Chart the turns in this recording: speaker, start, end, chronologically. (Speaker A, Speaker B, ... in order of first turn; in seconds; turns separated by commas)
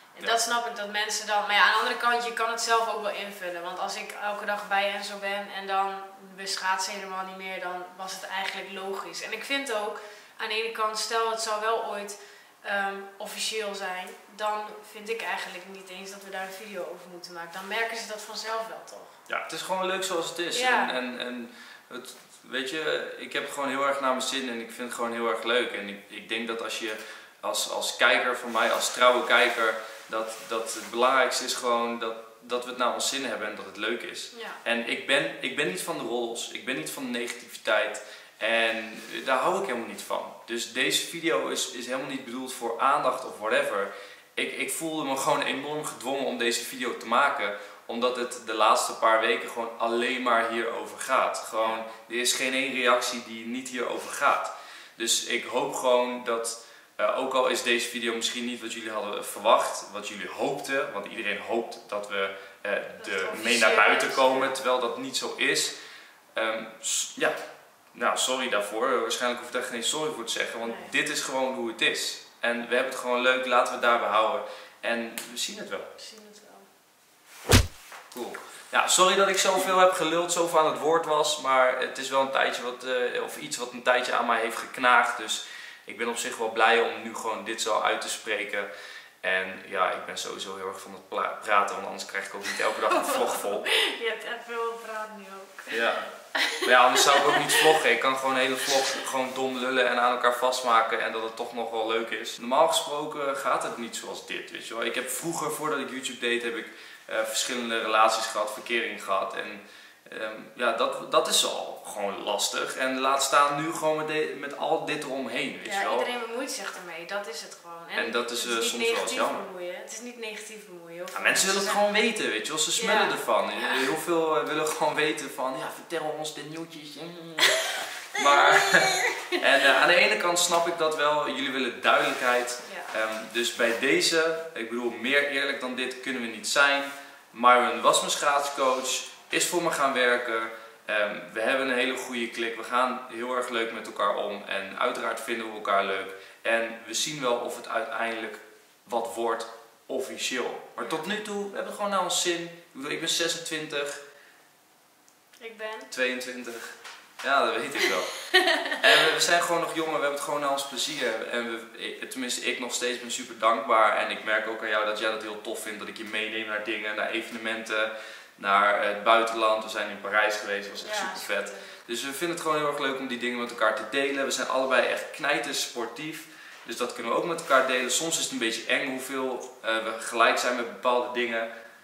Speaker A: 0.1-19.1, Speaker B: 19.3-65.7, Speaker A: 20.5-20.9, Speaker A: 34.3-34.6, Speaker A: 51.5-51.8, Speaker A: 63.0-64.5, Speaker B: 66.3-67.4, Speaker B: 67.9-75.9, Speaker A: 70.6-70.9, Speaker A: 76.0-76.7, Speaker B: 78.1-88.7, Speaker B: 89.2-93.7, Speaker A: 92.7-95.8, Speaker B: 95.7-116.1, Speaker A: 96.3-97.7, Speaker A: 115.6-121.8, Speaker B: 117.9-119.4, Speaker B: 121.1-154.0, Speaker A: 122.8-123.9, Speaker A: 128.2-129.4, Speaker A: 132.6-132.9, Speaker A: 150.8-151.1, Speaker A: 155.4-155.9, Speaker B: 155.9-181.5, Speaker A: 158.3-158.7, Speaker A: 170.8-171.7